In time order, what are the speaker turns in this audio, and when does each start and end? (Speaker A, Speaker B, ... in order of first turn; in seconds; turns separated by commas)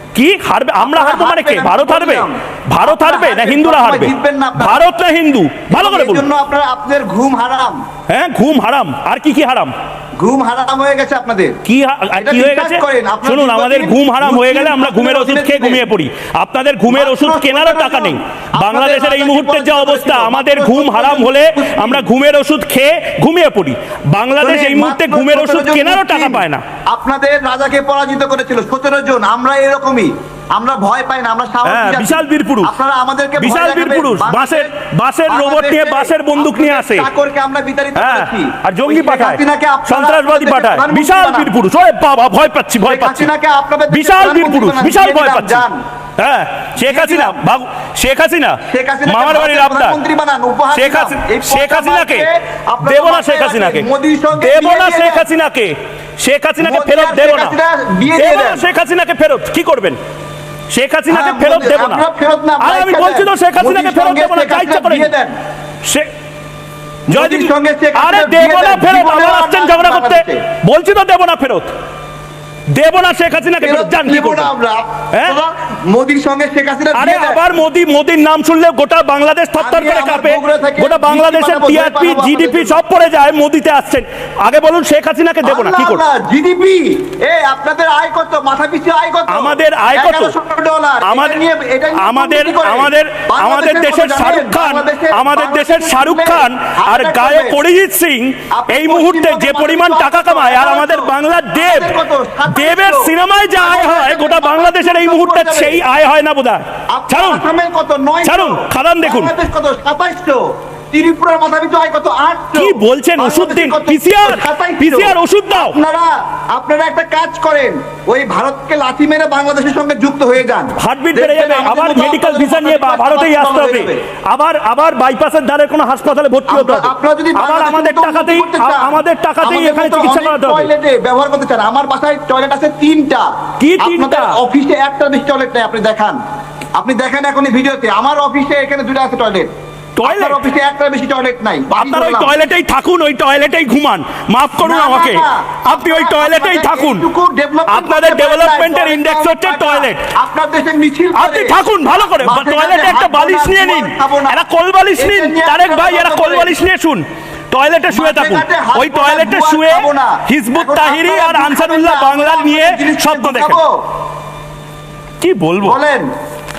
Speaker A: 0.1-6.2, Speaker B: 0.8-4.8, Speaker B: 5.7-7.8, Speaker A: 8.1-9.7, Speaker B: 10.2-11.6, Speaker A: 11.6-26.6, Speaker B: 12.2-15.9, Speaker B: 16.9-22.0, Speaker B: 24.4-34.7, Speaker A: 31.6-32.7, Speaker A: 33.4-37.1, Speaker B: 35.3-41.5, Speaker A: 37.9-43.3, Speaker B: 42.8-45.8, Speaker A: 43.9-45.6, Speaker A: 46.2-50.0, Speaker B: 46.8-47.4, Speaker B: 48.7-55.2, Speaker A: 50.7-52.3, Speaker A: 52.8-57.5, Speaker B: 56.6-58.6, Speaker A: 58.1-60.0, Speaker A: 60.7-62.0, Speaker B: 61.1-65.3, Speaker A: 62.6-65.1, Speaker A: 65.8-66.1, Speaker B: 67.1-70.4, Speaker A: 67.1-71.7, Speaker A: 72.7-74.5, Speaker B: 73.6-77.4, Speaker A: 75.1-75.4, Speaker A: 76.9-86.0, Speaker B: 79.6-82.8, Speaker B: 85.4-97.6, Speaker A: 89.3-90.3, Speaker A: 91.0-91.4, Speaker A: 92.0-101.9, Speaker B: 98.5-105.8, Speaker A: 102.5-107.4, Speaker B: 106.9-124.0, Speaker A: 108.2-109.3, Speaker A: 112.5-115.8, Speaker A: 120.8-130.7, Speaker B: 126.5-136.2, Speaker A: 133.6-134.4, Speaker B: 136.8-139.5, Speaker A: 139.9-140.4, Speaker B: 140.0-142.3, Speaker A: 141.7-147.1, Speaker B: 144.6-154.4, Speaker A: 147.7-150.1, Speaker A: 151.1-163.6, Speaker B: 155.0-156.6, Speaker B: 157.9-163.7, Speaker A: 165.2-165.8, Speaker B: 165.6-166.1